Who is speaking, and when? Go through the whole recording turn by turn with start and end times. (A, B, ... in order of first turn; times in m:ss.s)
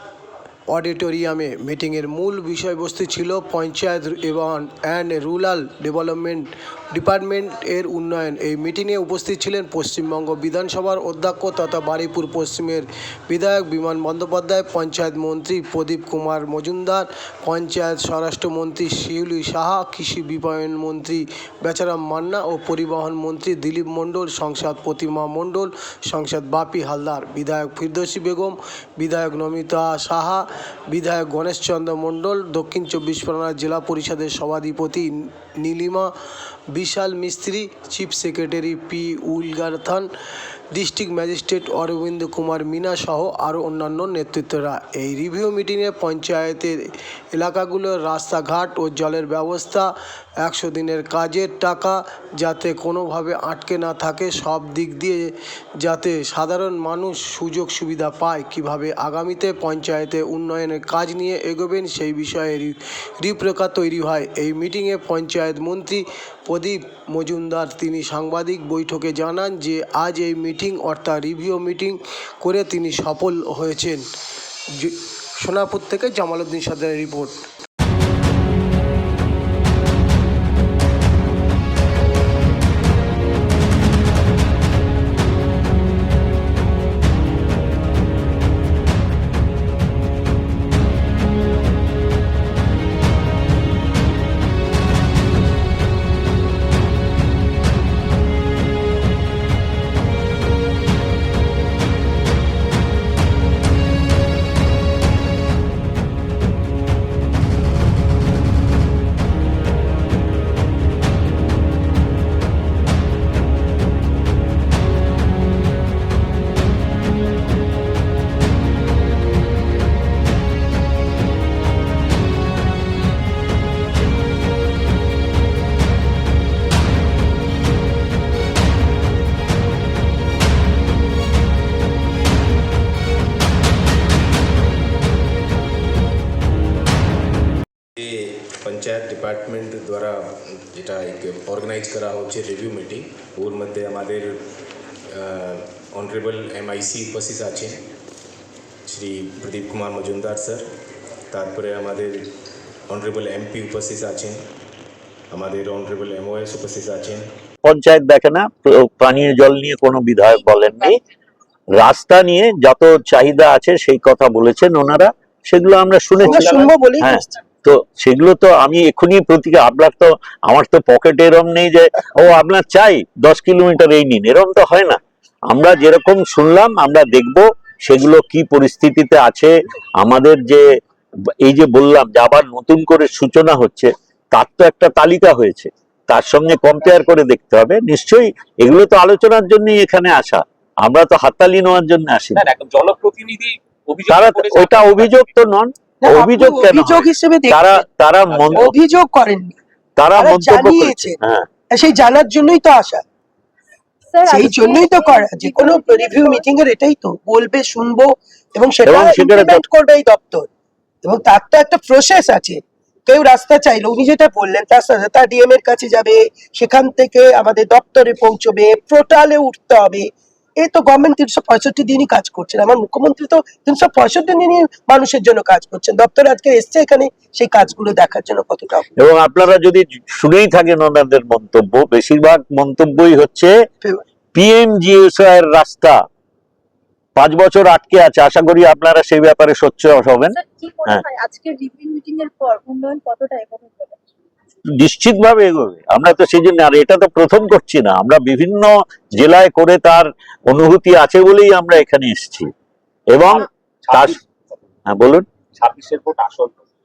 0:00.7-0:36.1 A
0:36.7-0:40.1 A
0:40.7-1:14.0 A
1:14.7-1:17.4 A
2:18.0-2:24.4 B
2:25.1-2:27.8 B
2:28.9-2:30.7 B
2:31.3-2:32.3 B
2:32.9-2:34.4 B
2:35.3-2:37.3 B
2:37.6-2:41.0 C
2:41.7-3:00.6 C
2:46.2-2:47.3 D
2:46.4-2:46.7 E
3:01.4-3:12.5 C
3:12.4-3:15.1 E
3:14.1-3:18.7 C
3:16.0-3:17.8 D
3:18.5-3:19.6 D
3:20.0-3:21.5 C
3:20.2-3:21.2 D
3:21.7-3:23.0 D
3:24.1-3:26.4 F
3:24.3-3:30.5 D
3:28.8-3:29.6 C
3:31.0-3:40.1 D
3:40.6-3:48.8 D
3:49.0-3:53.5 C
3:54.3-3:56.0 C
3:57.2-4:01.0 C
4:00.4-4:04.0 F
4:04.8-4:12.5 C
4:13.1-4:14.2 C
4:13.9-4:14.2 E
4:14.9-4:15.2 C
4:15.6-4:16.6 E